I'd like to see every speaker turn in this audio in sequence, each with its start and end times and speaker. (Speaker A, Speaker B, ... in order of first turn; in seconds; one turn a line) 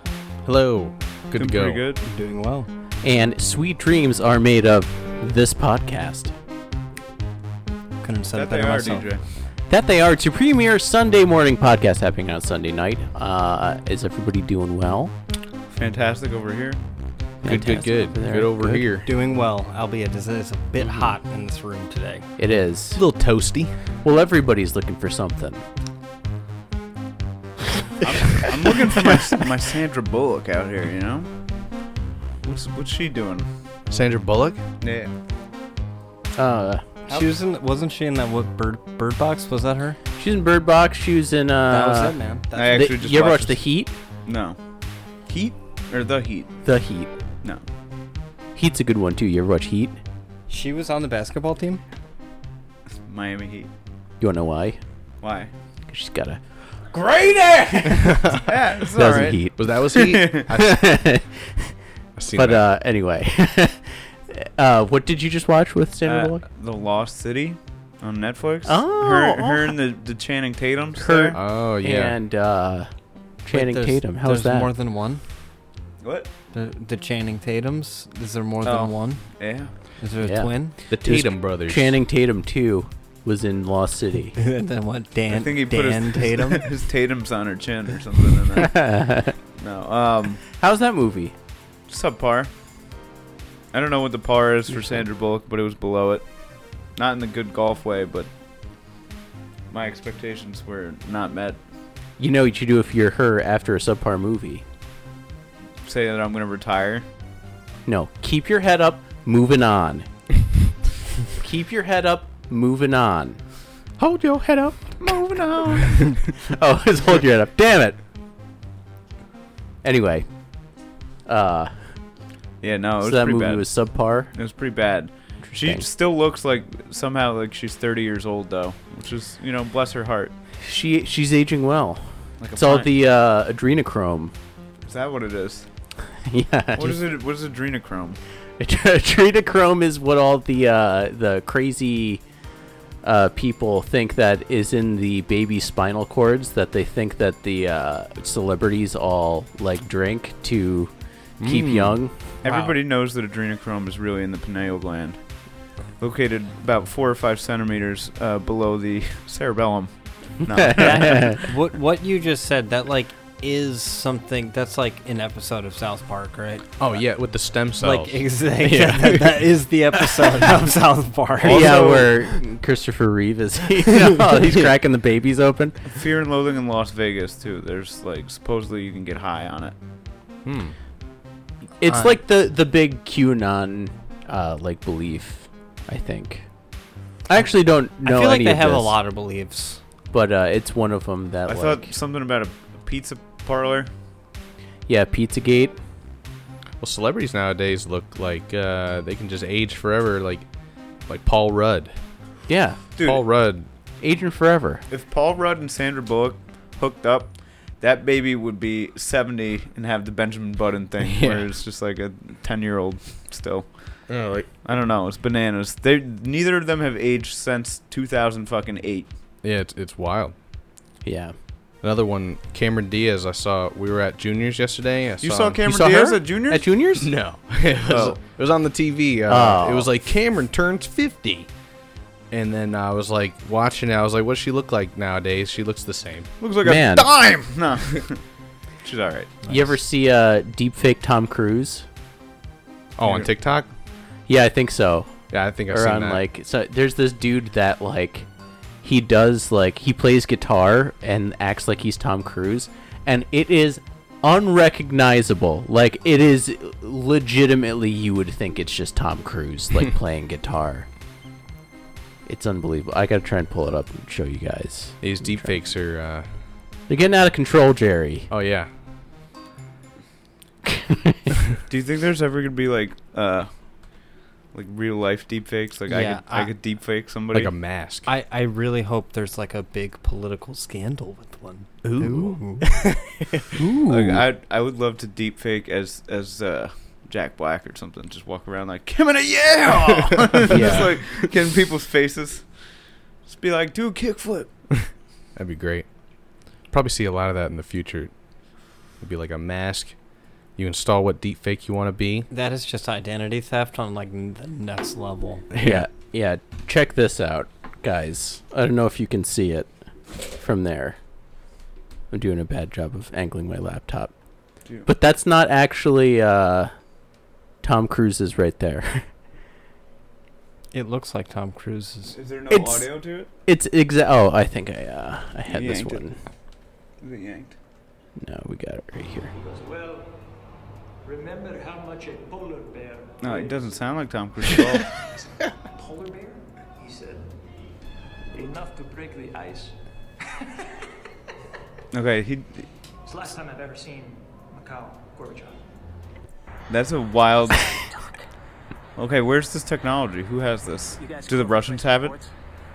Speaker A: 0.4-1.8
Speaker B: 1.4-2.0
Speaker C: 2.0-2.7
Speaker D: 3.0-6.3
Speaker C: 8.0-9.1
Speaker B: 8.3-9.2
Speaker D: 9.7-15.1
Speaker B: 15.7-16.8
Speaker D: 17.4-18.9
Speaker A: 17.4-19.1
Speaker C: 19.0-22.3
Speaker D: 22.4-23.0
Speaker A: 22.9-23.7
Speaker D: 24.0-25.6
Speaker D: 28.0-29.1
Speaker B: 28.0-31.3
Speaker B: 32.4-33.5
Speaker A: 33.9-34.6
Speaker B: 34.8-35.1
Speaker D: 36.4-36.9
Speaker C: 37.1-40.0
Speaker D: 40.2-42.2
Speaker C: 41.7-43.3
Speaker B: 42.6-43.6
Speaker D: 42.7-44.0
Speaker B: 44.3-44.6
Speaker B: 45.3-46.5
Speaker D: 46.6-47.1
Speaker D: 48.5-50.0
Speaker C: 50.5-51.8
Speaker B: 53.1-53.7
Speaker D: 54.2-54.8
Speaker B: 55.2-55.5
Speaker D: 55.9-58.4
Speaker A: 57.9-58.4
Speaker B: 58.4-60.5
Speaker D: 59.0-61.7
Speaker A: 59.6-60.9
Speaker A: 62.2-62.6
Speaker D: 62.3-66.4
Speaker B: 66.0-71.4
Speaker D: 68.7-69.8
Speaker D: 71.0-72.9
Speaker A: 71.3-72.2
Speaker D: 73.4-74.7
Speaker C: 73.5-75.2
Speaker B: 76.0-76.3
Speaker C: 76.5-79.2
Speaker B: 78.6-79.7
Speaker C: 80.0-80.8
Speaker D: 80.2-84.4
Speaker A: 80.9-81.9
Speaker C: 84.4-86.6
Speaker B: 85.3-88.9
Speaker D: 88.6-89.3
Speaker B: 89.6-90.4
Speaker D: 90.5-91.3
Speaker B: 91.9-92.5
Speaker B: 93.7-96.2
Speaker B: 97.0-98.3
Speaker B: 99.7-101.6
Speaker D: 102.2-104.6
Speaker B: 105.8-107.0
Speaker D: 107.9-110.1
Speaker D: 111.4-113.4
Speaker A: 114.0-114.7
Speaker B: 115.0-116.2
Speaker D: 115.9-118.0
Speaker D: 119.8-120.3
Speaker D: 121.3-121.9
Speaker B: 122.6-123.7
Speaker D: 123.0-124.3
Speaker B: 124.3-130.3
Speaker D: 125.5-125.9
Speaker D: 130.6-134.3
Speaker B: 132.4-132.9
Speaker B: 134.8-135.7
Speaker D: 136.2-137.0
Speaker B: 136.8-138.2
Speaker D: 138.6-142.2
Speaker D: 143.0-150.9
Speaker A: 151.4-152.0
Speaker D: 151.4-152.1
Speaker C: 152.4-152.8
Speaker B: 152.4-155.2
Speaker B: 156.0-161.4
Speaker D: 160.6-161.4
Speaker C: 160.7-166.7
Speaker A: 166.8-168.2
Speaker C: 167.8-172.4
Speaker D: 168.6-169.3
Speaker B: 171.4-172.1
Speaker D: 171.4-175.8
Speaker B: 175.9-179.7
Speaker A: 180.4-180.8
Speaker D: 181.8-186.4
Speaker C: 181.9-182.2
Speaker D: 187.3-188.9
Speaker C: 188.0-189.8
Speaker D: 190.1-191.9
Speaker B: 191.5-193.9
Speaker D: 194.9-195.8
Speaker A: 196.8-200.5
Speaker A: 201.1-201.9
Speaker D: 202.5-202.8
Speaker B: 203.0-203.2
Speaker A: 203.0-203.7
Speaker D: 204.0-204.8
Speaker B: 204.9-214.1
Speaker A: 211.0-211.4
Speaker A: 214.1-214.5
Speaker B: 214.6-219.1
Speaker A: 219.4-220.3
Speaker D: 221.0-221.3
Speaker A: 221.8-225.6
Speaker B: 225.2-226.7
Speaker D: 225.7-227.1
Speaker A: 227.0-231.5
Speaker B: 227.9-228.2
Speaker D: 229.3-229.9
Speaker A: 232.3-236.3
Speaker B: 236.4-238.2
Speaker D: 236.6-237.1
Speaker B: 238.8-239.3
Speaker D: 239.5-241.9
Speaker A: 243.0-243.7
Speaker B: 243.0-243.3
Speaker D: 244.3-245.2
Speaker A: 245.3-246.2
Speaker D: 245.7-248.3
Speaker D: 248.8-260.9
Speaker D: 262.3-265.5
Speaker A: 265.0-266.3
Speaker D: 266.9-268.3
Speaker A: 268.3-268.7
Speaker D: 270.7-271.3
Speaker B: 271.7-273.5
Speaker B: 274.5-277.5
Speaker C: 275.9-276.5
Speaker A: 277.3-278.1
Speaker C: 278.1-282.7
Speaker A: 281.8-283.6
Speaker D: 283.6-284.2
Speaker B: 283.9-292.5
Speaker A: 290.5-290.9
Speaker D: 290.5-290.9
Speaker B: 293.3-294.6
Speaker A: 295.4-295.9
Speaker A: 296.7-298.1
Speaker A: 299.0-300.0
Speaker A: 300.5-302.3
Speaker C: 302.3-305.5
Speaker A: 305.5-305.9
Speaker D: 305.6-311.0
Speaker D: 312.1-314.1
Speaker D: 314.9-316.7
Speaker D: 317.6-319.1
Speaker C: 320.7-322.2
Speaker B: 322.1-323.3
Speaker D: 322.5-322.9
Speaker D: 323.4-326.2
Speaker B: 325.5-326.0
Speaker B: 327.0-327.6
Speaker D: 328.2-329.3
Speaker E: 329.4-330.2
Speaker E: 331.0-333.8
Speaker B: 333.2-334.9
Speaker E: 334.9-337.3
Speaker E: 338.3-339.8
Speaker B: 341.9-342.7
Speaker E: 343.1-345.6
Speaker B: 346.7-347.7
Speaker B: 349.0-352.2